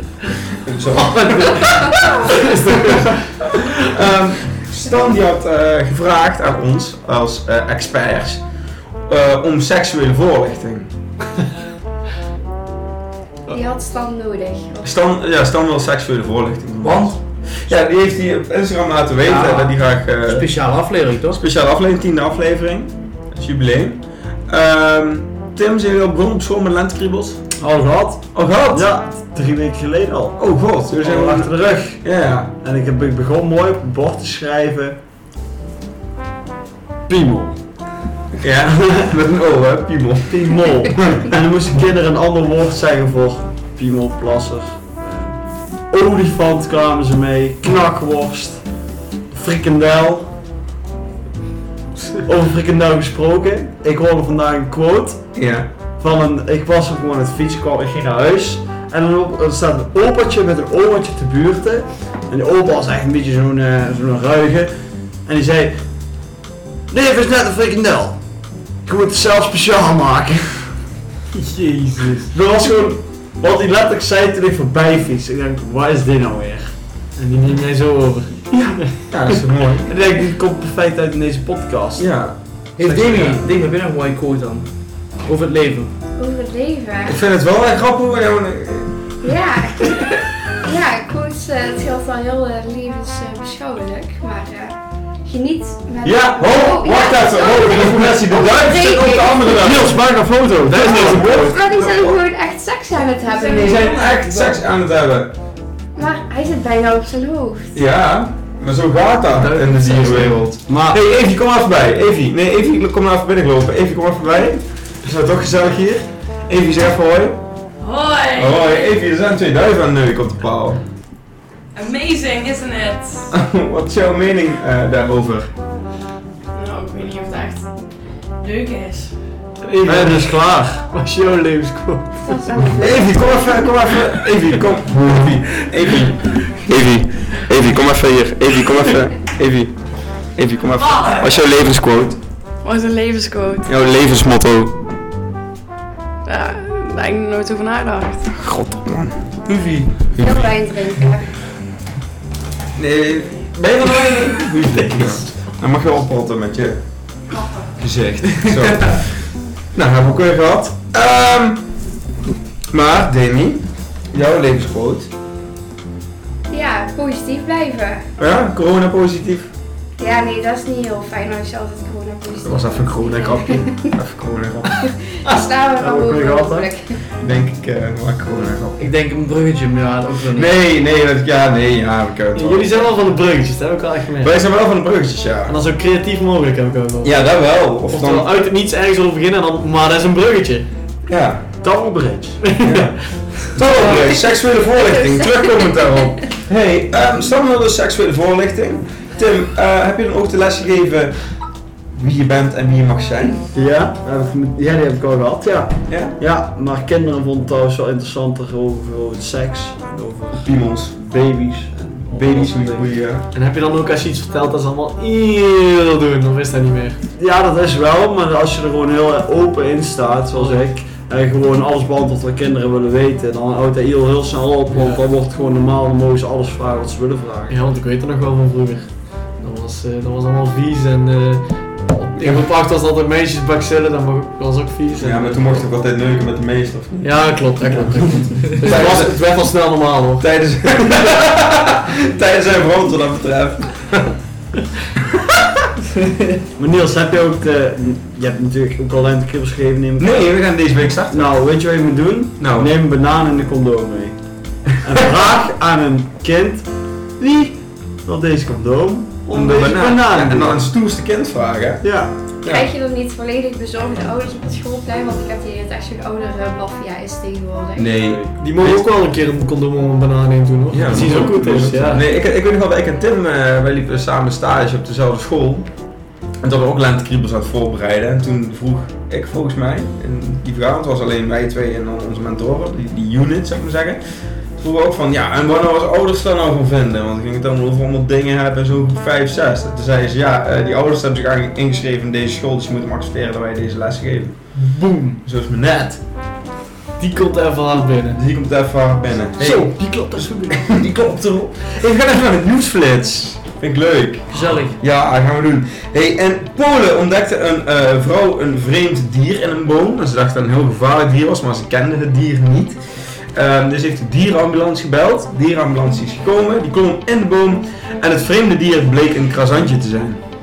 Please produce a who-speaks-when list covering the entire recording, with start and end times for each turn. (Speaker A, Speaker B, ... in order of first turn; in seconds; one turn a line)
Speaker A: 0.5-2.0
Speaker B: 1.1-3.0
Speaker A: 2.8-8.4
Speaker A: 9.1-10.9
Speaker C: 13.5-14.9
Speaker A: 14.8-20.5
Speaker D: 16.8-17.2
Speaker D: 19.2-21.4
Speaker A: 21.3-27.4
Speaker E: 27.6-32.0
Speaker A: 28.3-28.9
Speaker A: 30.4-32.5
Speaker E: 32.6-35.0
Speaker E: 37.1-37.6
Speaker A: 38.4-41.3
Speaker E: 38.7-39.1
Speaker E: 40.3-50.3
Speaker E: 52.2-55.5
Speaker A: 55.4-55.7
Speaker E: 56.0-66.1
Speaker E: 66.9-68.2
Speaker E: 68.8-70.8
Speaker B: 71.3-72.3
Speaker E: 72.3-76.8
Speaker B: 77.1-79.1
Speaker A: 79.1-79.9
Speaker E: 79.9-82.1
Speaker A: 82.0-83.5
Speaker D: 82.8-85.9
Speaker C: 86.2-87.2
Speaker A: 87.1-89.3
Speaker C: 89.2-99.9
Speaker A: 96.0-100.0
Speaker E: 99.5-101.5
Speaker A: 100.7-102.2
Speaker C: 101.0-104.0
Speaker A: 103.4-105.3
Speaker D: 103.7-104.5
Speaker C: 106.0-107.8
Speaker A: 107.7-117.4
Speaker B: 109.4-110.4
Speaker E: 109.8-111.0
Speaker F: 117.9-118.6
Speaker A: 118.3-120.8
Speaker F: 121.8-123.2
Speaker A: 123.3-125.5
Speaker F: 126.5-127.7
Speaker F: 128.4-129.1
Speaker B: 129.6-132.4
Speaker E: 129.8-130.7
Speaker C: 132.2-133.5
Speaker A: 132.7-142.2
Speaker F: 142.6-143.7
Speaker A: 143.7-144.8
Speaker F: 146.3-148.4
Speaker A: 148.3-149.4
Speaker D: 149.5-149.9
Speaker A: 150.1-150.6
Speaker C: 150.2-151.3
Speaker A: 152.8-156.8
Speaker A: 157.8-161.6
Speaker A: 162.7-165.1
Speaker C: 166.5-168.1
Speaker A: 168.2-169.5
Speaker C: 170.0-173.9
Speaker A: 172.4-174.9
Speaker C: 174.8-177.0
Speaker B: 175.2-176.6
Speaker E: 175.8-176.6
Speaker A: 177.2-178.8
Speaker D: 178.8-180.5
Speaker A: 180.3-182.9
Speaker B: 182.3-184.4
Speaker A: 184.2-185.6
Speaker B: 185.5-187.2
Speaker A: 187.0-188.3
Speaker B: 187.9-190.7
Speaker A: 191.1-191.5
Speaker E: 191.6-192.5
Speaker B: 192.4-193.6
Speaker A: 192.6-201.3
Speaker C: 193.9-196.1
Speaker A: 201.9-203.4
Speaker E: 203.5-212.8
Speaker A: 205.9-206.2
Speaker A: 210.4-210.9
Speaker A: 212.1-213.3
Speaker B: 213.3-217.0
Speaker E: 217.2-227.6
Speaker B: 220.3-220.7
Speaker B: 224.7-225.0
Speaker B: 227.5-235.7
Speaker A: 235.0-239.7
Speaker B: 237.0-240.3
Speaker A: 240.2-243.9
Speaker E: 246.6-250.3
Speaker A: 250.0-251.3
Speaker E: 251.1-260.5
Speaker A: 252.4-252.7
Speaker A: 259.3-261.9
Speaker B: 259.4-259.9
Speaker E: 261.8-262.1
Speaker A: 262.4-262.7
Speaker C: 262.5-268.0
Speaker A: 267.8-268.9
Speaker B: 268.3-272.0
Speaker A: 270.7-275.7
Speaker E: 270.9-271.9
Speaker A: 276.4-284.0
Speaker A: 284.6-294.6
Speaker B: 294.6-295.2
Speaker A: 295.2-296.0
Speaker B: 297.0-298.2
Speaker A: 298.1-320.2
Speaker D: 299.4-299.7
Speaker B: 299.4-300.7
Speaker D: 304.3-304.8